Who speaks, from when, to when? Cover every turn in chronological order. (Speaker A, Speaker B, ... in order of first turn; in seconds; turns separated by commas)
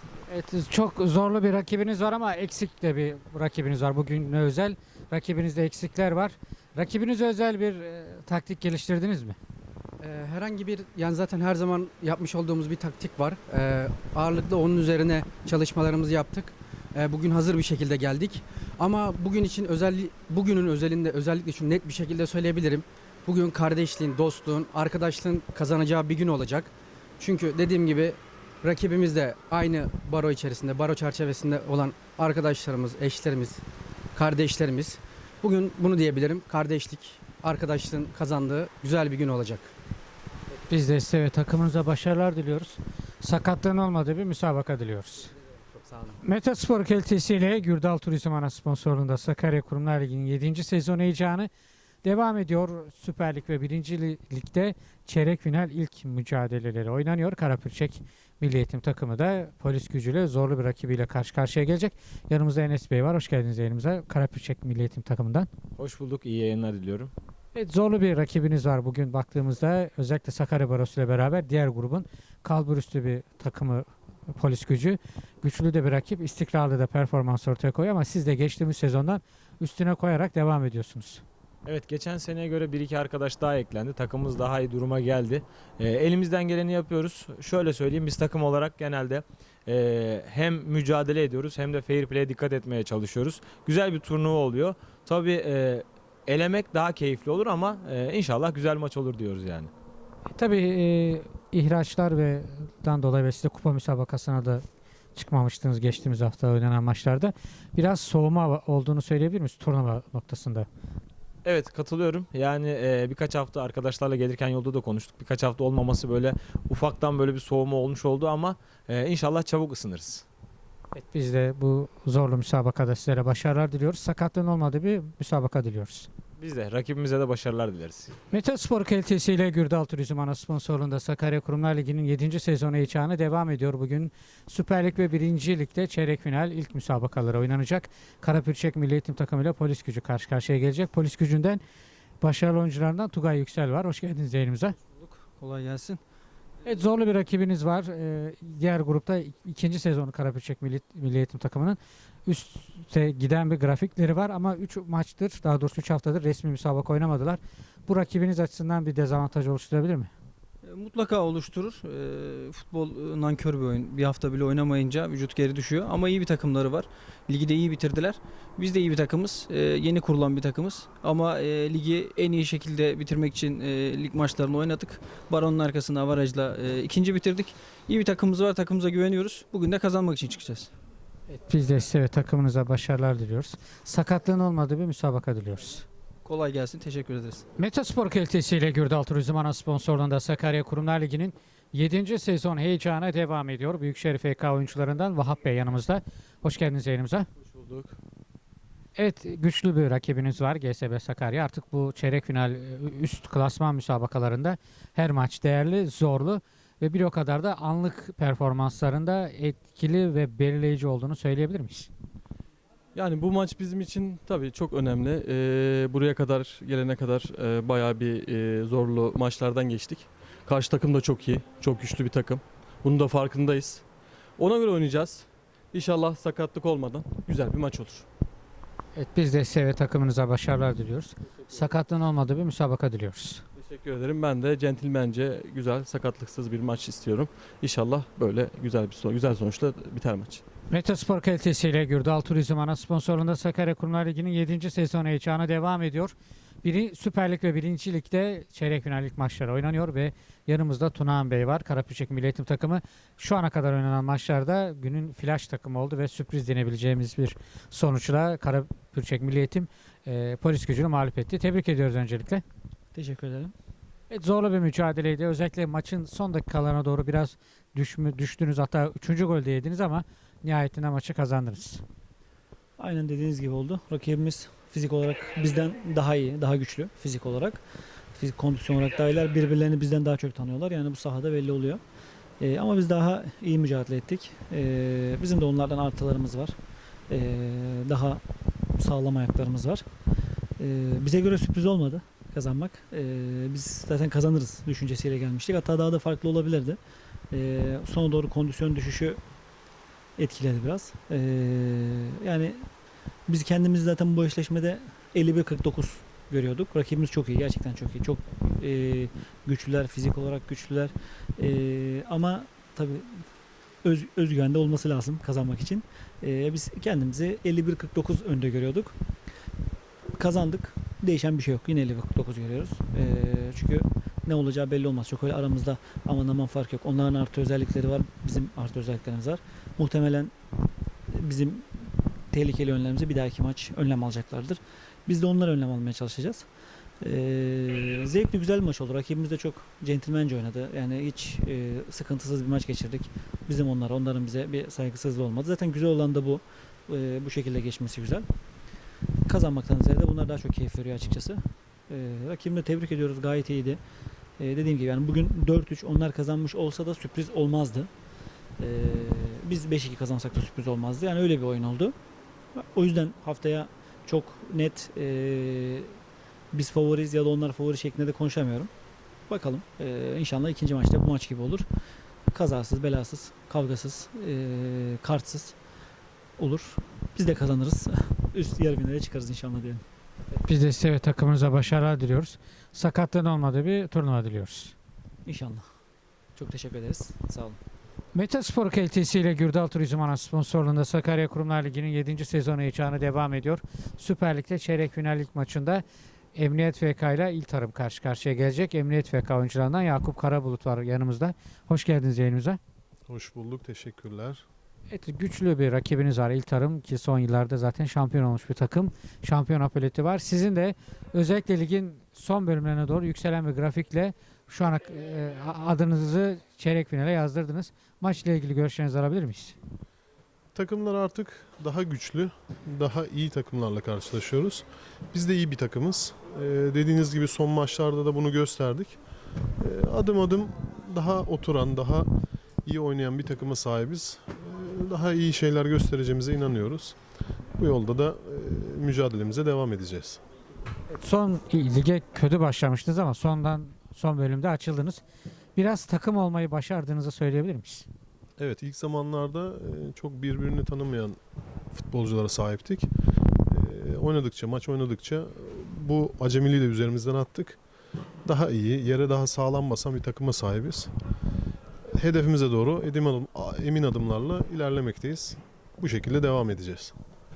Speaker A: 0.3-9.4, Speaker B: 10.0-33.6, Speaker B: 34.1-39.7, Speaker A: 40.7-45.3, Speaker B: 45.8-46.2, Speaker A: 46.2-51.5, Speaker A: 52.0-65.5, Speaker C: 65.8-67.1, Speaker A: 67.5-81.2, Speaker C: 81.7-99.7, Speaker A: 100.3-104.6, Speaker A: 105.2-110.7, Speaker C: 111.4-120.2, Speaker A: 120.9-126.1, Speaker C: 126.4-128.1, Speaker A: 128.3-141.6, Speaker A: 142.2-144.8, Speaker D: 145.0-146.0, Speaker A: 146.7-160.1, Speaker D: 160.6-180.7, Speaker A: 181.3-185.9, Speaker D: 186.2-187.4, Speaker A: 187.6-197.3, Speaker E: 197.6-197.9, Speaker A: 199.0-211.9, Speaker E: 212.9-223.8, Speaker E: 224.4-228.1, Speaker A: 229.0-233.4, Speaker E: 233.6-240.4, Speaker A: 240.7-262.4, Speaker F: 262.9-263.5, Speaker A: 264.1-271.8, Speaker F: 272.8-277.6, Speaker F: 278.2-281.8, Speaker F: 282.4-286.6, Speaker F: 287.1-288.2, Speaker F: 288.8-289.8, Speaker F: 290.6-296.8, Speaker F: 297.3-299.2, Speaker F: 300.2-302.6, Speaker F: 303.3-313.2, Speaker F: 313.9-318.9, Speaker F: 320.2-330.3, Speaker F: 331.2-331.6, Speaker F: 332.3-336.5, Speaker F: 337.0-348.2, Speaker F: 349.3-353.8, Speaker F: 354.4-357.9, Speaker F: 358.6-361.9, Speaker F: 362.7-365.9, Speaker F: 366.5-368.7, Speaker F: 369.3-371.7, Speaker F: 372.3-375.6, Speaker F: 376.4-379.8, Speaker A: 380.4-384.7, Speaker F: 385.3-385.6, Speaker F: 386.4-387.6, Speaker A: 388.1-395.8, Speaker A: 396.4-402.6, Speaker G: 403.1-404.4, Speaker A: 404.9-419.6, Speaker G: 420.5-429.0, Speaker G: 429.6-432.1, Speaker G: 432.7-437.0, Speaker G: 437.6-440.2, Speaker A: 440.9-445.0, Speaker A: 445.6-447.9, Speaker G: 448.4-451.2, Speaker G: 451.8-452.9, Speaker G: 453.5-457.6, Speaker G: 458.3-460.9, Speaker G: 462.0-466.9